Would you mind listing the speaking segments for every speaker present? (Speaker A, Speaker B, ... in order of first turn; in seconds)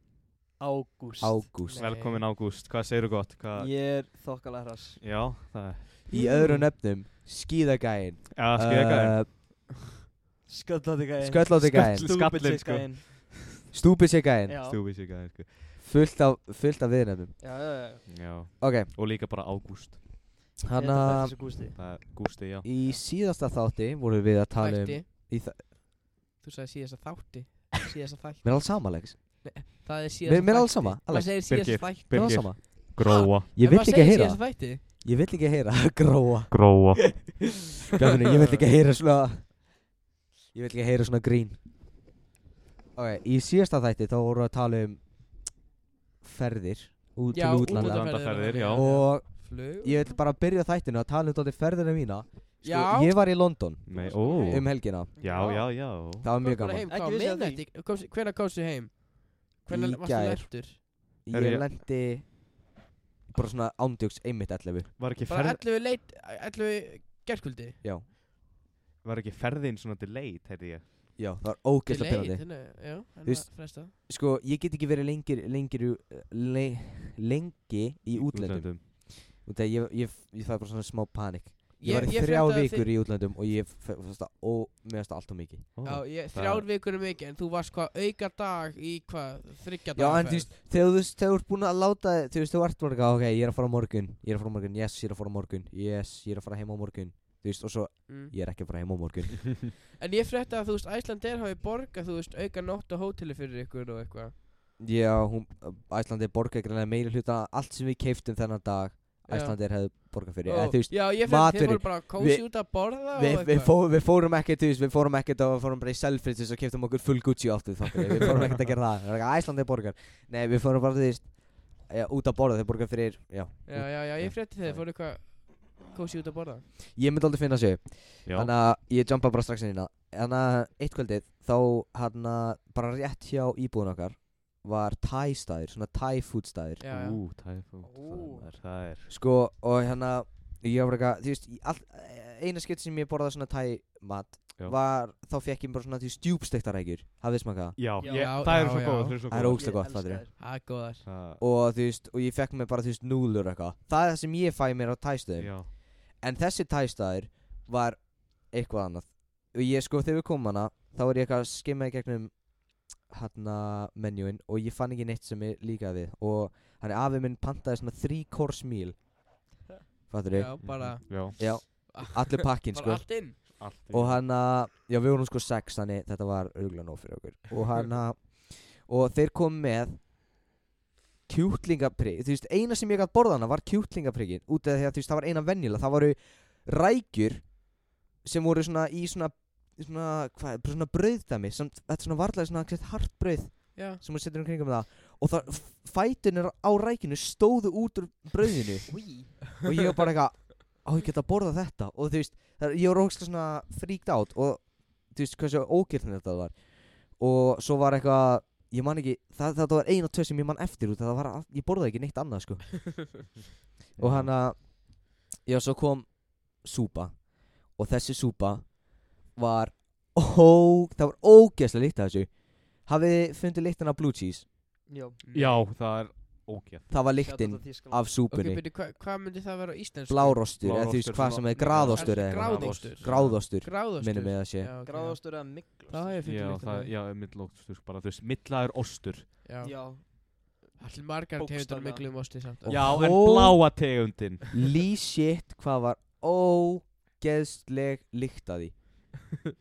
Speaker A: 0.6-1.4, 3.6-5.0, 10.5-13.0, 14.5-14.8, 17.4-18.1, 20.7-21.8, 55.2-55.6, 56.9-57.6, 137.8-138.5, 148.0-148.3, 149.5-150.3, 198.9-199.4, 224.9-225.2, 227.2-228.1, 234.8-236.2, 239.6-240.8, 241.3-242.1
Speaker B: 1.2-1.9, 6.1-9.3, 11.2-12.2, 13.7-14.6, 15.8-17.4, 18.6-18.9, 20.7-21.9, 22.6-25.7, 28.4-29.7, 30.2-37.3, 37.9-39.7, 40.5-41.6, 43.0-45.0, 46.2-56.9, 59.7-62.6, 63.3-65.0, 71.2-85.8, 90.0-99.7, 104.8-124.8, 126.9-136.8, 139.1-147.8, 149.3-150.4, 151.4-169.0, 170.1-180.0, 181.3-213.3, 214.0-224.5, 226.9-228.6, 230.1-234.7, 242.7-243.9, 244.5-249.3
Speaker C: 1.7-2.2, 6.2-6.5, 24.6-25.1, 26.4-34.8, 47.3-50.2, 52.6-54.8, 55.3-60.8, 65.3-67.8, 71.9-73.9, 81.8-82.9, 85.8-90.5, 98.1-98.3, 100.0-104.3, 109.3-113.7, 123.7-126.7, 136.8-137.2, 148.0-149.2, 150.4-151.1, 170.3-173.6, 193.8-194.0, 225.2-225.6, 228.3-230.4, 231.9-236.9, 239.4-240.1, 240.8-242.9
Speaker D: 1.8-3.7, 5.0-6.0, 8.4-9.5, 11.6-13.3, 14.6-15.6, 18.1-20.0, 21.7-22.7, 31.4-33.5, 36.5-37.2, 47.5-48.9, 53.9-56.3, 61.3-61.7, 65.0-65.6, 69.0-70.9, 78.2-78.8, 85.8-86.7, 128.3-128.5, 136.9-139.1, 147.8-149.8, 151.0-151.4, 155.4-155.7, 170.6-171.4, 173.5-174.2, 214.0-214.3, 225.3-226.9, 230.6-233.4, 236.2-239.3, 242.7-244.5